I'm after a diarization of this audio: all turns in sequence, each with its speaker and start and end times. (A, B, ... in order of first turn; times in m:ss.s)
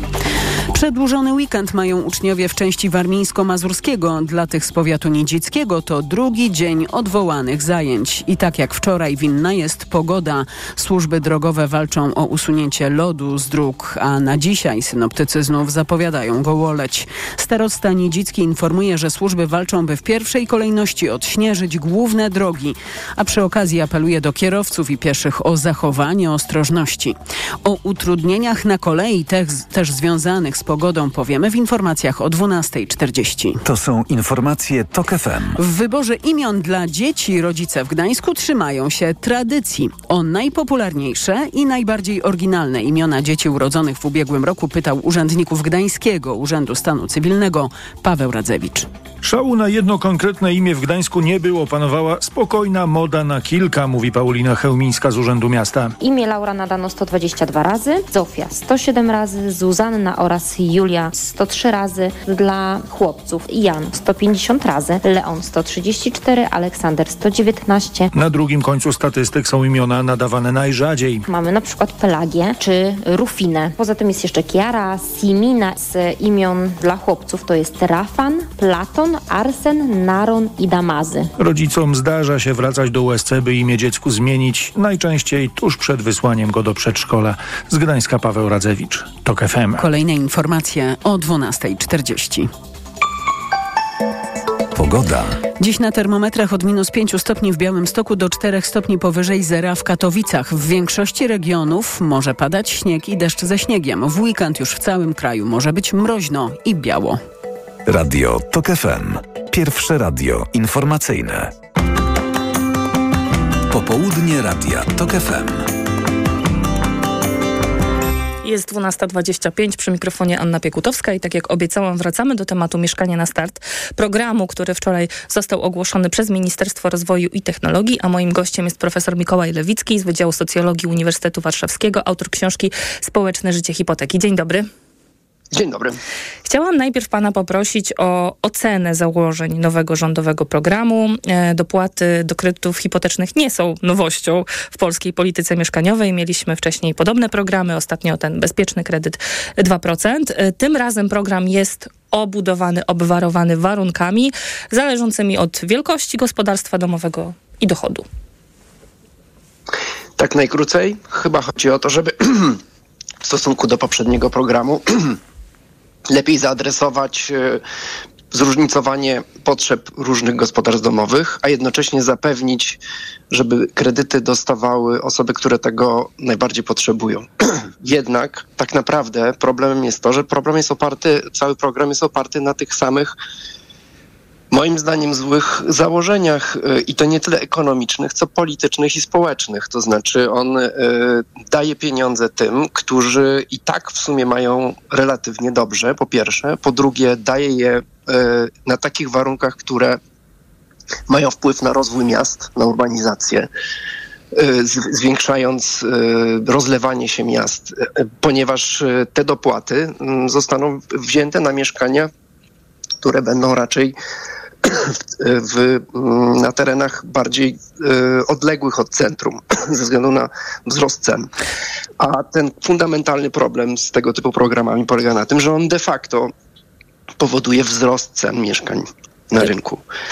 0:00.7-0:33.6 A
0:33.6-0:35.6 B
0:35.6-0:48.9 A
0:49.2-0:55.9 C
0:56.0-1:08.1 D
1:08.1-1:11.2 C
1:11.3-1:21.3 D
1:21.4-1:29.8 C
1:29.8-1:32.5 A
1:34.7-1:35.4 B
1:35.6-1:47.2 A
1:47.9-1:51.5 B
1:53.7-1:55.6 B
1:58.4-2:14.7 E
2:15.5-2:16.0 F
2:16.4-2:38.0 E
2:40.2-2:42.6 F
2:43.2-2:45.2 F
2:46.1-2:47.6 F
2:48.3-2:52.8 F
2:53.3-2:57.3 F
2:57.8-3:03.2 F
3:04.5-3:20.0 F
3:21.1-3:23.5 F
3:24.3-3:32.1 F
3:33.0-3:33.9 F
3:34.6-3:41.3 F
3:42.0-3:46.3 F
3:47.2-3:49.8 F